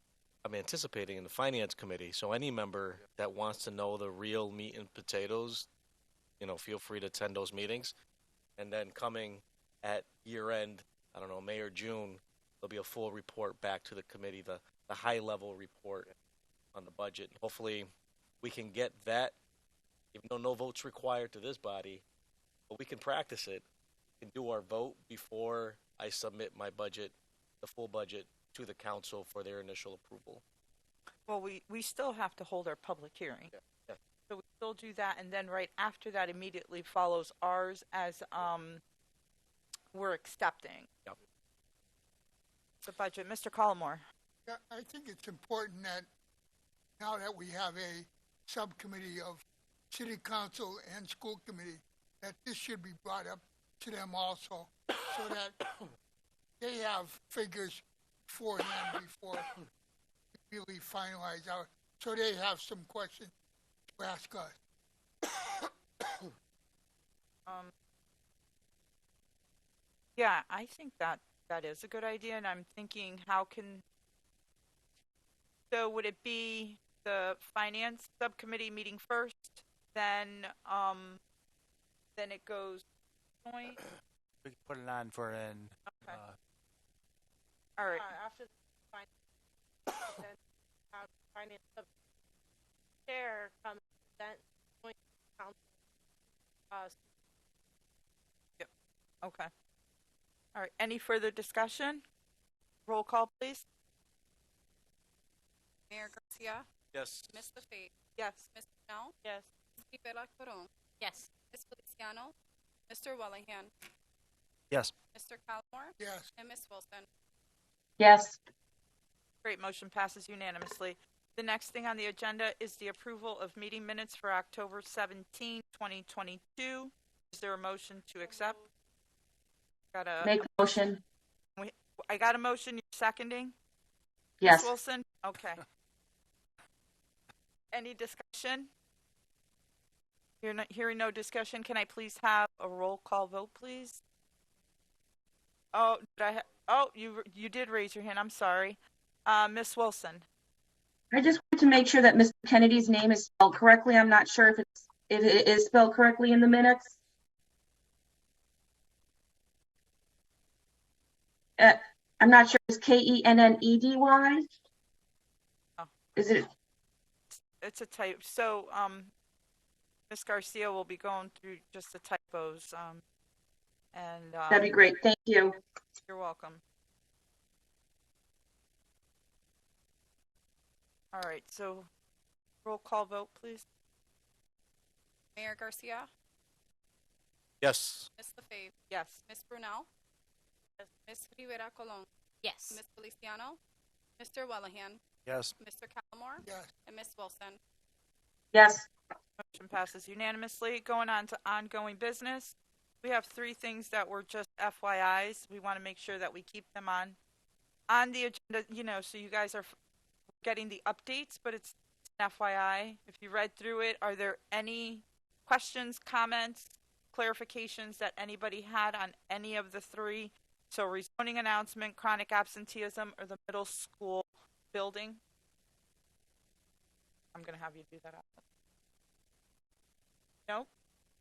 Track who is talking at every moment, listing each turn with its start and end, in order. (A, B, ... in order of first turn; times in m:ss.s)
0:00.4-0:05.7 A
0:06.4-0:07.9 A
0:08.6-0:16.1 A
0:16.7-0:17.9 A
0:18.4-0:19.4 A
0:20.1-0:22.0 A
0:22.7-0:23.6 A
0:24.2-0:30.4 A
0:31.3-0:33.5 B
0:34.3-0:38.8 B
0:39.9-0:40.9 B
0:42.8-0:44.0 B
0:44.5-0:46.1 C
0:47.0-0:55.6 C
0:56.6-0:59.5 C
1:00.4-1:03.3 C
1:04.0-1:04.6 C
1:07.4-1:07.7 B
1:10.2-1:13.8 B
1:15.7-1:21.2 B
1:22.2-1:22.8 B
1:23.4-1:23.8 B
1:24.4-1:26.4 D
1:25.9-1:26.2 B
1:27.8-1:28.1 B
1:27.8-1:29.1 E
1:29.9-1:30.4 E
1:30.9-1:31.9 E
1:33.0-1:35.6 E
1:36.7-1:37.0 E
1:39.2-1:39.5 B
1:40.5-1:42.0 B
1:42.9-1:43.6 B
1:45.9-1:46.6 F
1:46.9-1:47.4 A
1:47.3-1:47.9 F
1:48.2-1:48.4 B
1:48.5-1:49.2 F
1:49.8-1:52.3 F
1:52.9-1:53.7 F
1:55.1-1:57.1 F
1:56.0-1:56.3 C
1:58.0-1:58.4 G
1:59.4-2:08.6 B
2:08.2-2:08.6 E
2:09.9-2:10.4 B
2:10.2-2:11.0 G
2:11.6-2:13.5 B
2:14.4-2:14.7 G
2:14.4-2:15.6 B
2:17.7-2:18.7 B
2:20.4-2:24.0 B
2:25.7-2:30.2 B
2:31.1-2:36.9 G
2:41.6-2:44.4 G
2:46.2-2:46.5 G
2:47.3-2:49.1 B
2:50.1-2:53.0 B
2:53.9-2:54.7 B
2:54.5-2:55.6 G
2:56.1-2:56.6 B
3:01.1-3:01.9 B
3:02.6-3:03.6 B
3:05.4-3:06.1 F
3:07.6-3:08.1 A
3:08.2-3:08.7 F
3:08.9-3:09.2 B
3:09.2-3:09.9 F
3:11.0-3:12.1 F
3:12.6-3:13.6 F
3:14.2-3:15.0 F
3:15.2-3:15.5 D
3:15.6-3:17.6 F
3:16.4-3:16.7 C
3:18.5-3:18.9 G
3:19.4-3:27.2 B
3:27.9-3:29.7 B
3:30.3-3:45.2 B
3:47.3-3:48.4 B